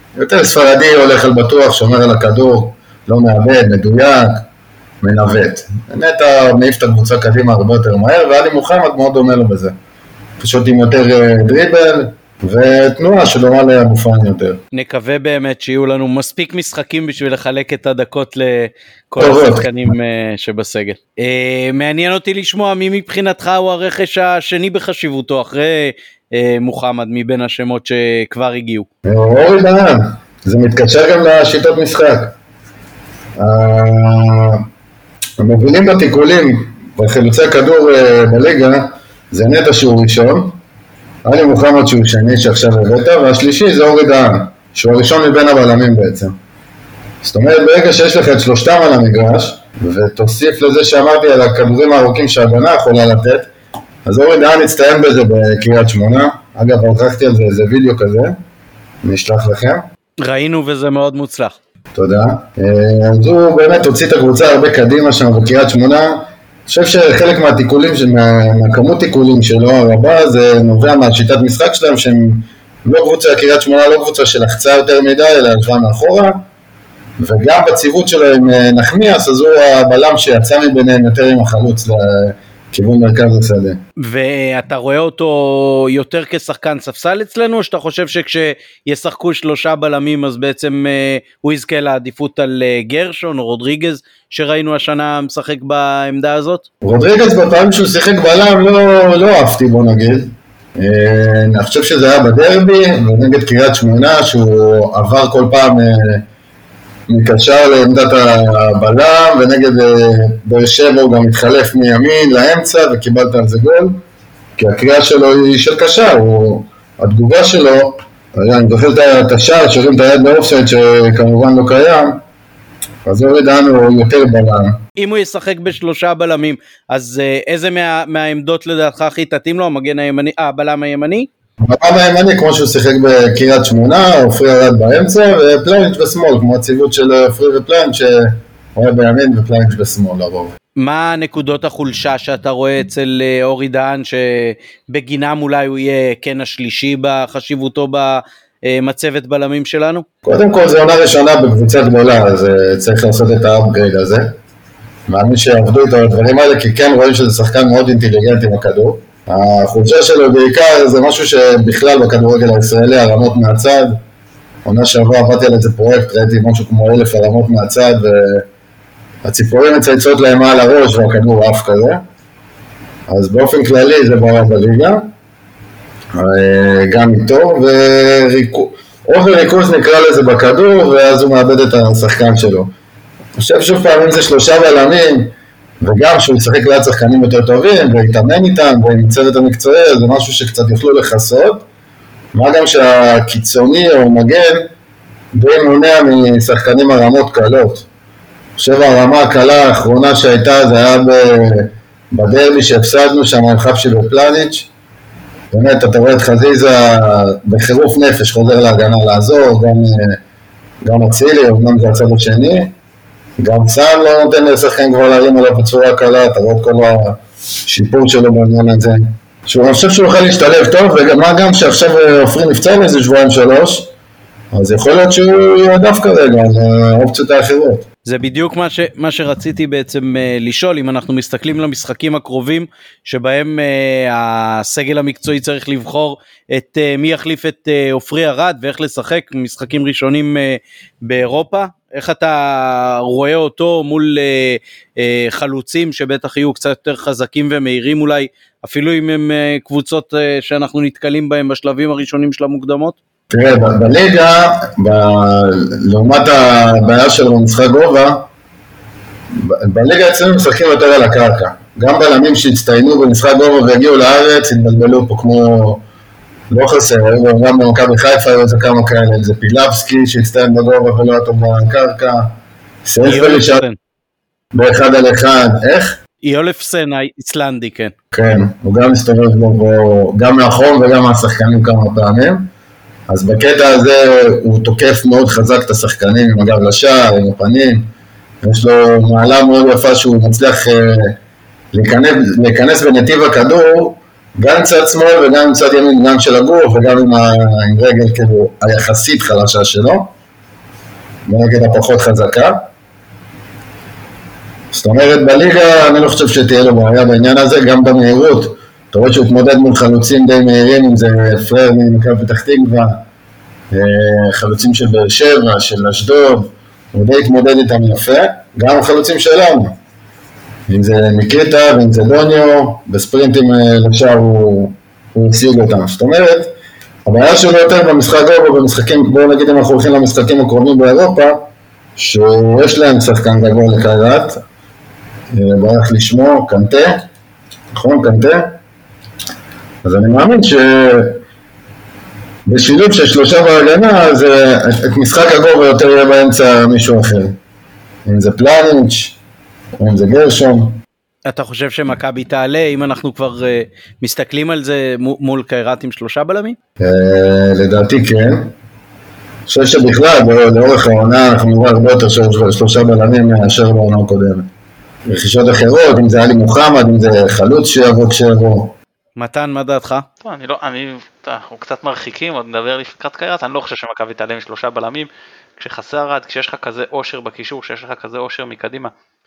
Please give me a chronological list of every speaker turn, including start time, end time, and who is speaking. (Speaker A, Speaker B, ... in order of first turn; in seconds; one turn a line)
Speaker A: 0.2-4.5
Speaker A: 5.0-9.8
Speaker A: 10.4-14.6
Speaker B: 14.7-28.9
Speaker A: 19.2-19.9
Speaker A: 29.1-32.4
Speaker A: 33.4-34.7
Speaker A: 35.4-40.6
Speaker A: 41.2-46.4
Speaker A: 47.2-53.5
Speaker A: 54.0-58.4
Speaker A: 59.0-59.9
Speaker B: 60.2-61.6
Speaker A: 62.0-76.4
Speaker A: 77.2-83.8
Speaker B: 84.0-96.7
Speaker A: 96.8-106.2
Speaker A: 107.1-114.0
Speaker A: 114.6-122.2
Speaker A: 123.0-124.8
Speaker B: 125.0-131.3
Speaker A: 131.6-140.6
Speaker B: 140.8-150.1
Speaker A: 150.2-154.3
Speaker A: 155.1-164.0
Speaker A: 164.7-168.5
Speaker A: 169.2-172.0
Speaker A: 173.1-175.1
Speaker A: 176.1-182.7
Speaker A: 183.4-191.7
Speaker A: 192.3-194.7
Speaker A: 195.3-197.9
Speaker A: 198.6-204.7
Speaker A: 205.5-210.2
Speaker A: 210.8-212.7
Speaker A: 213.4-223.9
Speaker A: 224.5-227.8
Speaker B: 228.1-253.0
Speaker A: 253.3-258.3
Speaker A: 259.3-265.8
Speaker A: 266.5-273.6
Speaker B: 273.1-273.8
Speaker A: 274.5-276.0
Speaker B: 276.2-277.9
Speaker A: 278.1-282.5
Speaker A: 283.1-287.9
Speaker A: 288.4-291.2
Speaker A: 291.7-300.1
Speaker A: 301.3-302.7
Speaker A: 304.7-313.0
Speaker A: 313.7-319.8
Speaker A: 320.7-334.4
Speaker A: 335.3-337.1
Speaker A: 337.7-338.6
Speaker A: 339.8-341.2
Speaker A: 342.5-347.4
Speaker A: 348.1-349.2
Speaker A: 349.8-350.8
Speaker B: 351.3-356.6
Speaker A: 356.8-358.6
Speaker A: 359.5-364.5
Speaker A: 365.1-368.8
Speaker B: 369.2-370.1
Speaker C: 370.2-378.9